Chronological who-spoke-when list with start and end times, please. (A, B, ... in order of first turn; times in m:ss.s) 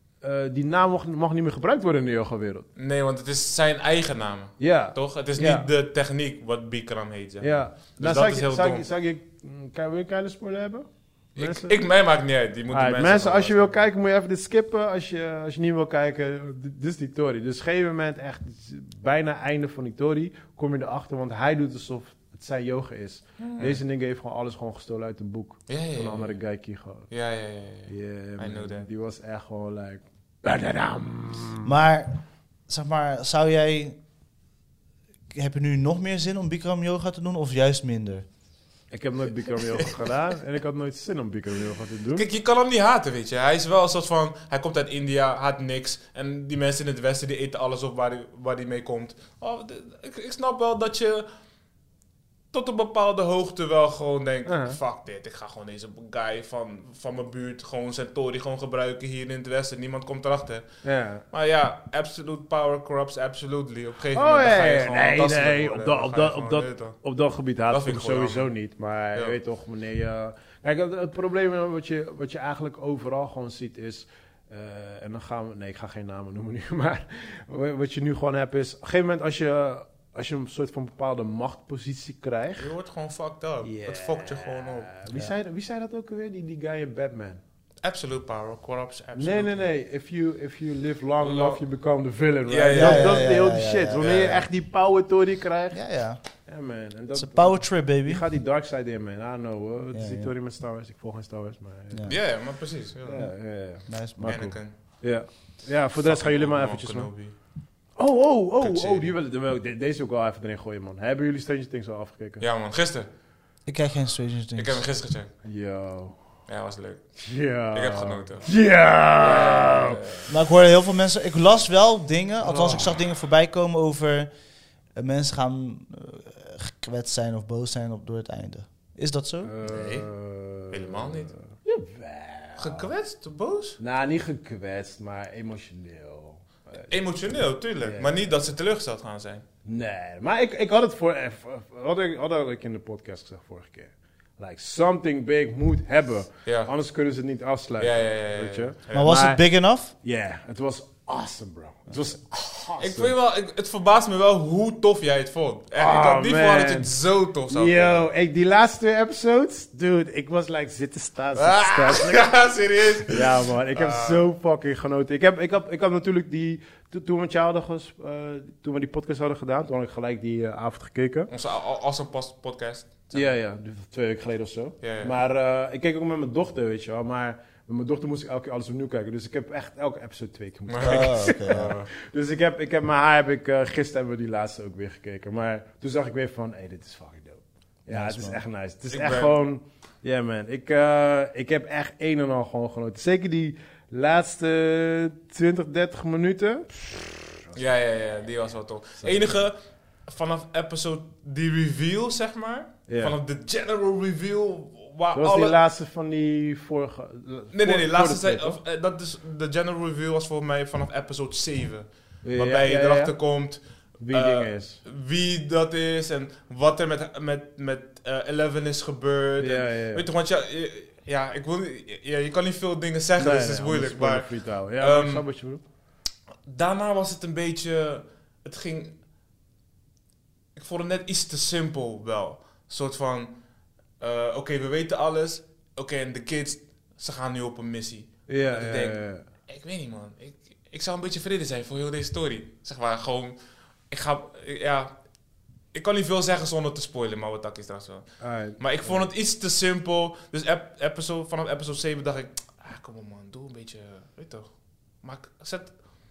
0:00.2-0:02.7 A
0:02.8-0:08.8 B
0:04.6-0:05.7 A
0:07.4-0:11.8 A
0:11.3-0:13.8 B
0:12.7-0:27.1 A
0:23.4-0:23.8 B
0:25.7-0:26.4 B
0:27.1-0:28.9 B
0:27.9-0:31.7 A
0:31.6-0:34.0 C
0:35.3-0:38.3 C
0:38.9-0:42.2 A
0:42.1-0:51.3 B
0:52.5-1:00.7 B
0:54.4-0:54.8 A
1:00.8-1:01.2 A
1:01.3-1:07.0 B
1:04.1-1:22.7 A
1:07.7-1:08.5 B
1:22.6-1:24.9 B
1:23.6-1:27.4 A
1:27.8-1:29.6 B
1:29.2-1:35.8 A
1:31.2-1:31.6 B
1:32.5-1:33.3 B
1:32.7-1:34.2 C
1:34.0-1:34.4 B
1:35.7-1:36.2 C
1:36.4-1:42.2 A
1:37.1-1:38.2 C
1:39.9-1:40.3 C
1:41.9-1:42.2 C
1:42.1-1:43.2 B
1:43.0-1:47.1 A
1:43.8-1:44.5 C
1:44.3-1:44.7 B
1:46.0-1:47.4 B
1:48.0-1:52.4 A
1:48.6-1:49.1 B
1:52.4-1:53.1 B
1:53.6-1:54.8 C
1:54.6-1:55.3 B
1:55.4-1:56.2 A
1:56.5-1:57.0 B
1:57.2-2:00.1 A
1:57.7-1:58.5 B
1:59.2-2:00.2 B
2:00.3-2:04.3 C
2:02.4-2:02.8 A
2:04.9-2:09.5 C
2:09.4-2:12.9 A
2:09.6-2:11.4 B
2:12.6-2:13.8 B
2:13.8-2:16.9 A
2:16.9-2:19.4 B
2:17.8-2:18.1 A
2:19.6-2:29.4 A
2:27.8-2:29.1 B
2:28.9-2:29.9 C
2:29.9-2:33.1 A
2:32.7-2:38.0 B
2:35.8-2:36.9 A
2:37.5-2:42.3 A
2:41.4-2:44.2 B
2:43.0-2:51.3 A
2:51.3-2:53.3 B
2:53.1-3:17.6 A
2:54.8-2:55.1 B
3:00.7-3:01.9 B
3:00.8-3:01.8 C
3:07.9-3:08.4 C
3:08.9-3:09.3 B
3:17.5-3:25.6 B
3:19.0-3:19.4 A
3:22.9-3:23.1 A
3:25.1-3:28.6 A
3:27.5-3:45.2 B
3:32.2-3:33.2 A
3:34.0-3:34.8 A
3:39.4-3:40.0 A
3:43.2-3:45.6 A
3:46.4-3:49.0 B
3:50.5-3:53.4 B
3:54.0-4:03.4 B
3:58.3-3:59.2 A
4:03.9-4:04.9 B
4:05.7-4:15.8 B
4:08.2-4:09.0 A